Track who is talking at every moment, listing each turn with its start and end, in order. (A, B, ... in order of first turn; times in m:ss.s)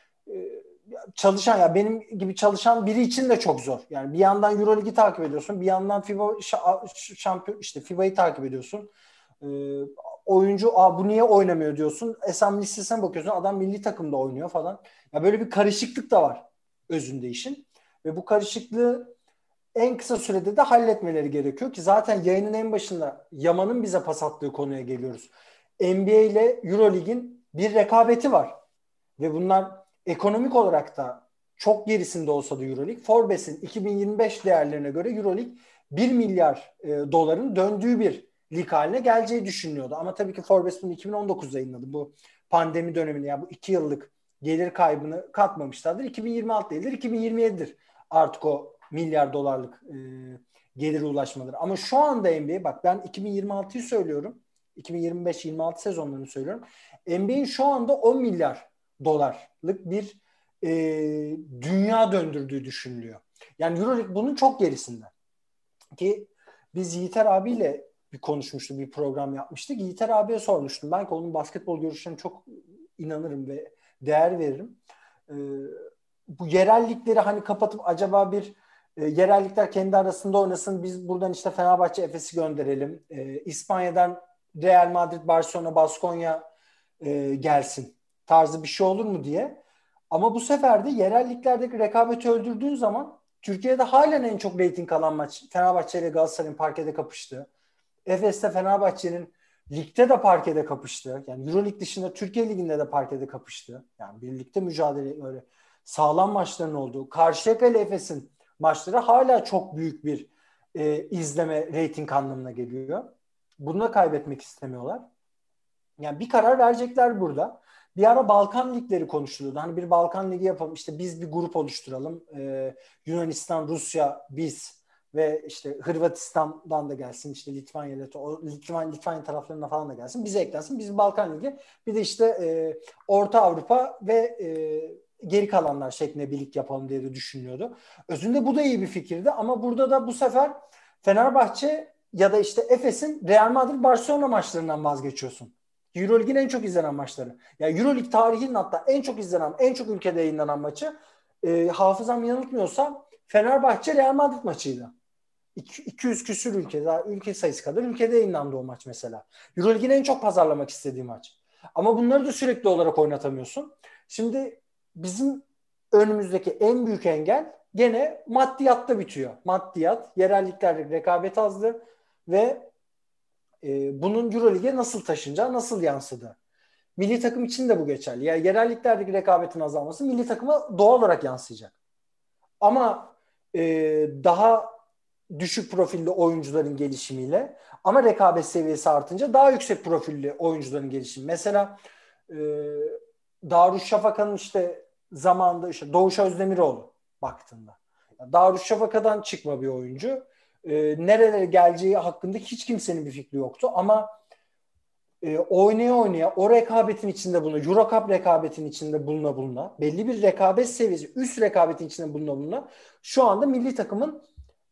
0:00.3-0:19.2 A
0:19.8-0:28.6 A
0:29.2-1:05.1 A
1:06.0-1:26.5 A
1:27.0-1:37.5 A
1:38.1-1:55.0 A
1:56.0-2:34.9 A
2:35.6-2:52.7 A
2:53.6-2:56.4 A
2:57.0-3:01.7 A
3:02.6-3:04.8 A
3:05.3-3:24.1 A
3:25.2-3:34.2 A